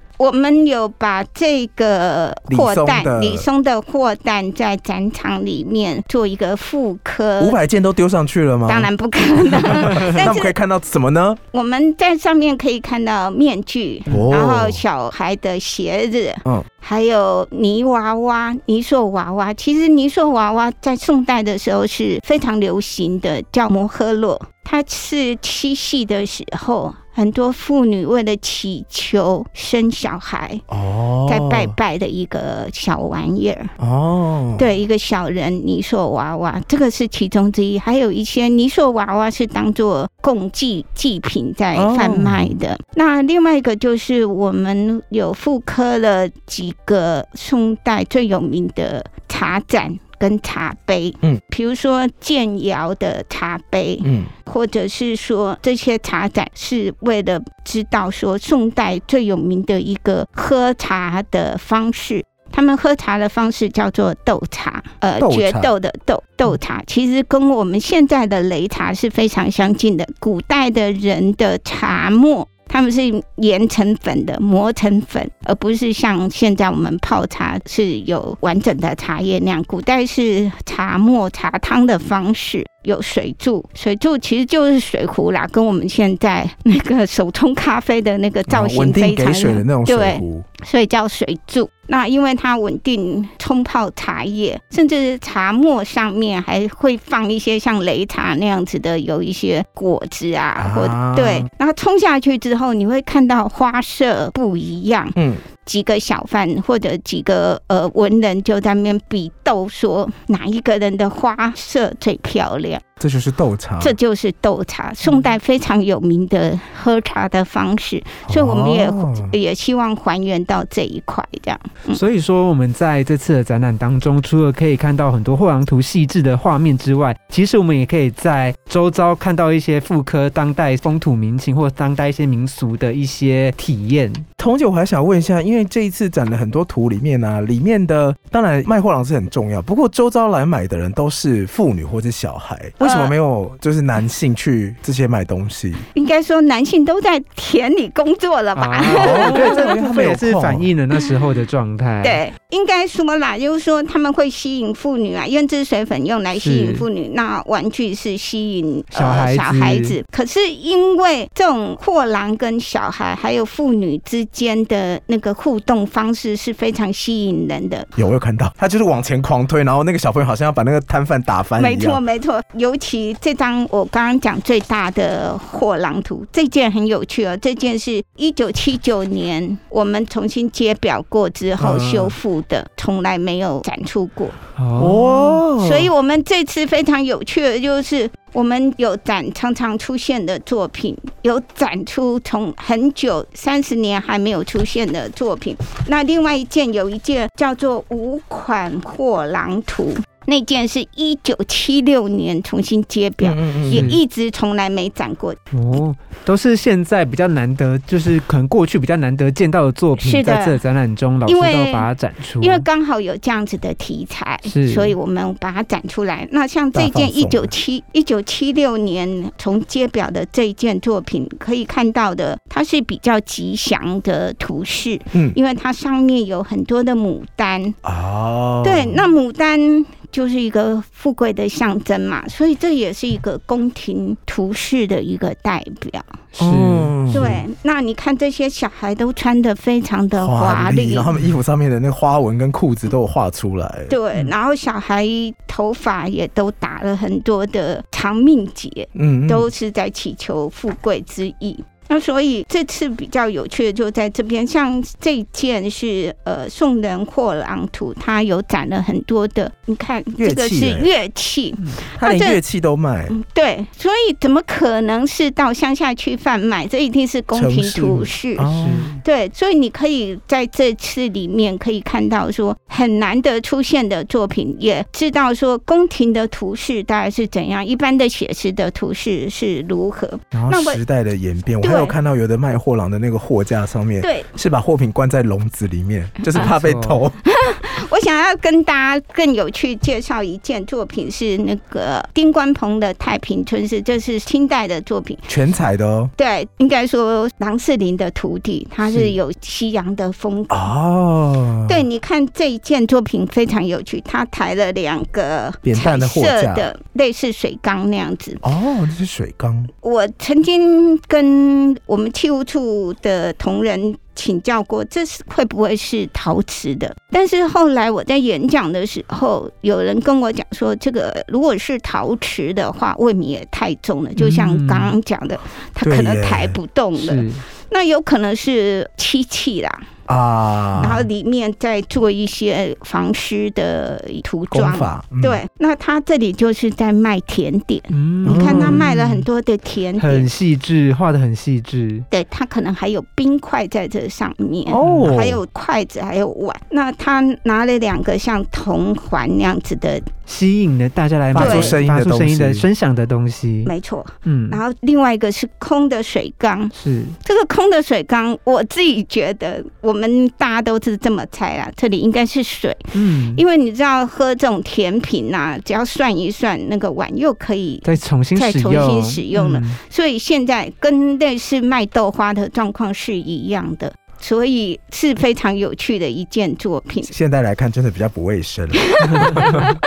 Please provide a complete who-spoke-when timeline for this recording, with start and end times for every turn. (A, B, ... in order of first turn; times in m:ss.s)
0:00.2-0:07.6 A
0:02.5-0:03.5 B
0:07.4-0:11.4 B
0:08.7-0:10.6 A
0:11.5-0:30.6 A
0:14.1-0:14.8 B
0:30.7-0:31.8 B
0:31.3-0:33.7 A
0:33.8-0:34.7 B
0:34.6-1:52.8 A
0:41.8-0:42.6 B
0:54.0-0:54.3 B
1:05.2-1:05.7 B
1:28.5-1:30.5 B
1:40.6-1:41.5 B
1:45.2-1:45.4 B
1:53.0-1:54.0 B
1:53.8-2:02.0 A
1:58.3-1:59.3 B
2:01.9-2:14.2 C
2:14.4-2:25.8 B
2:22.8-2:23.1 A
2:25.9-2:29.6 A
2:28.6-2:32.2 C
2:28.9-2:30.7 B
2:32.0-2:47.9 A
2:36.4-2:36.8 C
2:38.9-2:40.0 C
2:48.0-2:52.0 B
2:51.6-3:04.4 A
3:01.6-3:02.1 C
3:04.6-3:05.4 C
3:04.8-3:05.9 B
3:05.6-3:25.4 A
3:23.2-3:24.0 B
3:23.7-3:24.0 C
3:25.5-3:32.6 C
3:30.0-3:30.6 A
3:31.3-3:31.9 A
3:32.4-3:47.8 A
3:34.5-3:35.0 C
3:36.7-3:37.5 B
3:47.8-3:49.0 B
3:48.6-3:56.1 A
3:56.4-3:57.4 C
3:56.4-3:57.4 B
3:57.1-4:01.1 A
4:00.2-4:03.9 B
4:03.9-4:22.4 A
4:09.0-4:09.5 B
4:20.2-4:20.9 B
4:22.0-4:23.2 B
4:23.1-4:28.5 A
4:27.3-4:28.9 B
4:28.5-4:29.0 C
4:29.0-4:40.8 A
4:40.3-4:47.2 B
4:41.6-4:41.9 A
4:44.0-4:44.3 A
4:46.4-4:47.0 C
4:47.3-4:55.2 A
4:55.3-4:56.1 B
4:56.2-5:00.7 A
5:00.5-5:01.8 B
5:01.7-5:08.4 A
5:05.6-5:06.7 B
5:08.4-5:09.7 B
5:09.8-5:29.9 A
5:24.2-5:24.9 C
5:25.8-5:26.6 B
5:27.0-5:27.4 C
5:30.1-5:31.1 B
5:30.8-5:40.3 A
5:34.5-5:35.4 B
5:37.9-5:39.3 C
5:38.2-5:38.8 B
5:40.0-5:42.1 C
5:42.1-5:50.1 A
5:44.7-5:45.4 B
5:44.8-5:45.1 C
5:50.3-5:53.7 C
5:51.3-5:52.7 B
5:51.4-5:51.8 A
5:53.7-5:56.7 A
5:54.3-5:54.6 C
5:56.8-5:57.2 C
5:57.2-6:17.1 A
6:02.9-6:03.4 C
6:07.8-6:09.8 C
6:17.1-6:19.6 B
6:19.0-6:19.7 A
6:19.1-6:19.7 C